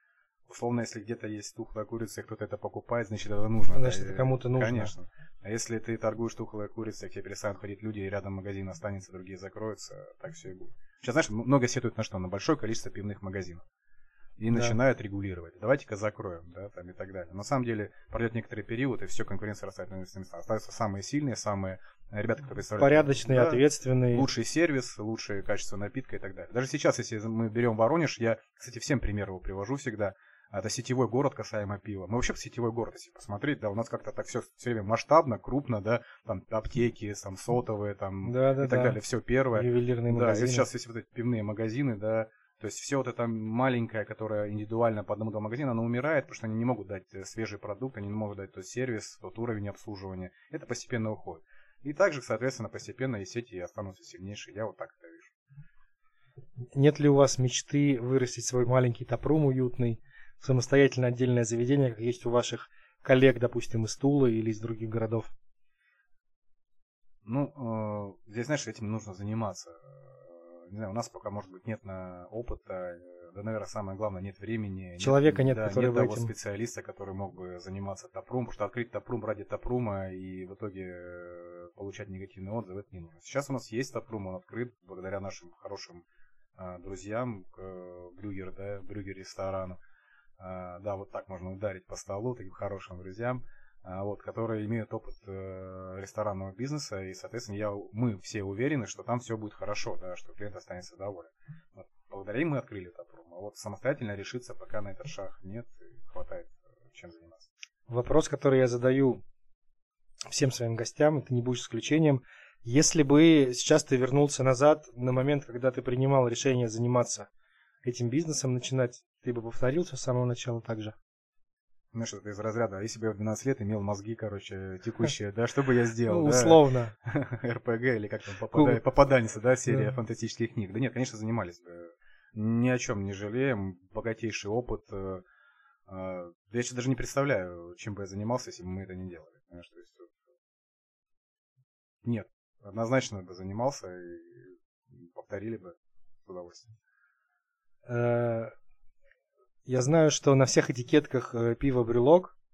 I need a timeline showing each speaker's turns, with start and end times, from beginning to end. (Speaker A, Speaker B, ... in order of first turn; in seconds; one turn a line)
Speaker A: 0.5-13.7
Speaker B: 3.7-4.9
Speaker A: 14.4-55.3
Speaker B: 14.5-14.8
Speaker B: 22.8-24.3
Speaker B: 38.2-39.0
Speaker B: 39.5-40.7
Speaker B: 56.7-65.3
Speaker A: 67.2-86.0
Speaker B: 75.0-76.3
Speaker A: 86.6-89.8
Speaker A: 90.4-107.5
Speaker B: 107.9-109.2
Speaker B: 110.3-117.3
Speaker B: 117.8-121.0
Speaker A: 121.9-135.2
Speaker B: 126.1-126.9
Speaker B: 128.5-128.8
Speaker A: 135.9-140.2
Speaker A: 142.0-146.7
Speaker B: 147.9-148.5
Speaker B: 149.7-152.3